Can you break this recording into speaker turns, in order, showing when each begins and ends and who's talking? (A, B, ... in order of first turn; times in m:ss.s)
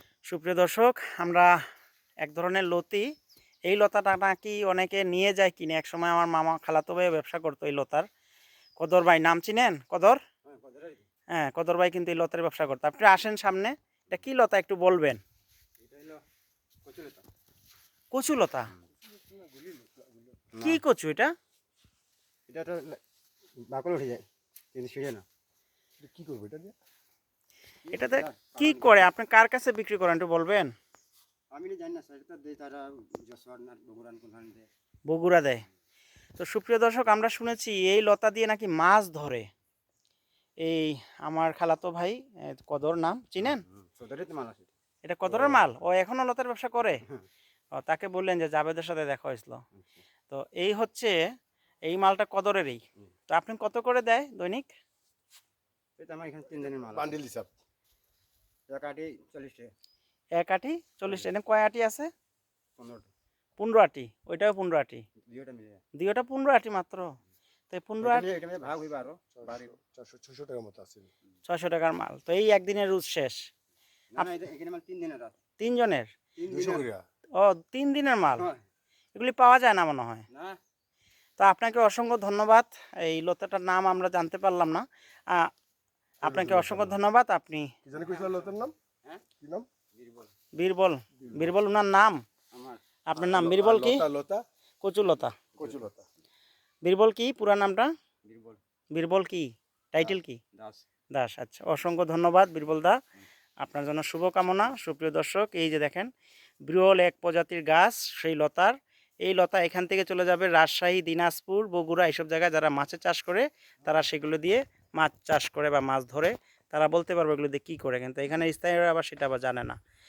0:00.3-0:01.5 A
0:02.2-0:03.0 A
0:03.7-0:08.1 A
0:08.8-0:10.2 A
0:10.5-0:11.0 B
0:11.3-0:15.2 A
0:15.8-0:16.2 B
0:16.8-0:17.3 B
0:18.1-0:18.7 A
0:19.2-0:20.3 C
0:20.5-0:20.8 B
0:20.6-0:21.3 A
0:22.5-0:23.0 B
0:23.6-0:25.2 B
0:26.0-0:26.8 C
0:27.9-0:29.0 B
0:27.9-0:30.7 A
0:31.5-0:34.7 B
0:35.1-0:35.6 A
0:36.4-0:39.5 A
0:40.6-0:43.6 A
0:43.4-0:44.7 B
0:45.0-0:47.0 A
0:45.3-0:45.7 B
0:47.8-0:49.6 A
0:50.3-0:51.1 A
0:51.9-0:54.7 A
0:56.0-0:57.2 B
0:56.9-0:57.5 C
0:58.7-0:59.7 B
1:00.4-1:02.1 A
1:02.8-1:03.1 B
1:03.6-1:05.0 A
1:05.2-1:05.8 B
1:06.0-1:07.1 A
1:07.7-1:08.2 A
1:08.0-1:09.8 B
1:09.4-1:11.1 C
1:11.4-1:13.4 A
1:14.1-1:15.4 B
1:15.6-1:16.1 A
1:16.4-1:16.9 B
1:16.5-1:17.0 C
1:17.4-1:18.5 A
1:19.1-1:20.2 A
1:20.3-1:20.6 B
1:21.4-1:25.5 A
1:26.2-1:27.0 C
1:26.2-1:27.7 A
1:27.8-1:28.7 C
1:28.0-1:29.2 B
1:29.4-1:29.7 C
1:29.9-1:30.3 B
1:30.6-1:32.2 A
1:31.2-1:31.5 C
1:32.5-1:32.8 B
1:33.1-1:34.0 A
1:33.2-1:34.4 C
1:34.8-1:35.4 A
1:35.5-1:35.8 B
1:35.6-1:36.0 C
1:36.8-1:37.9 A
1:38.2-1:38.6 B
1:38.9-1:40.4 A
1:40.0-1:40.8 B
1:41.1-1:43.0 A
1:43.6-1:46.1 A
1:46.6-1:59.8 A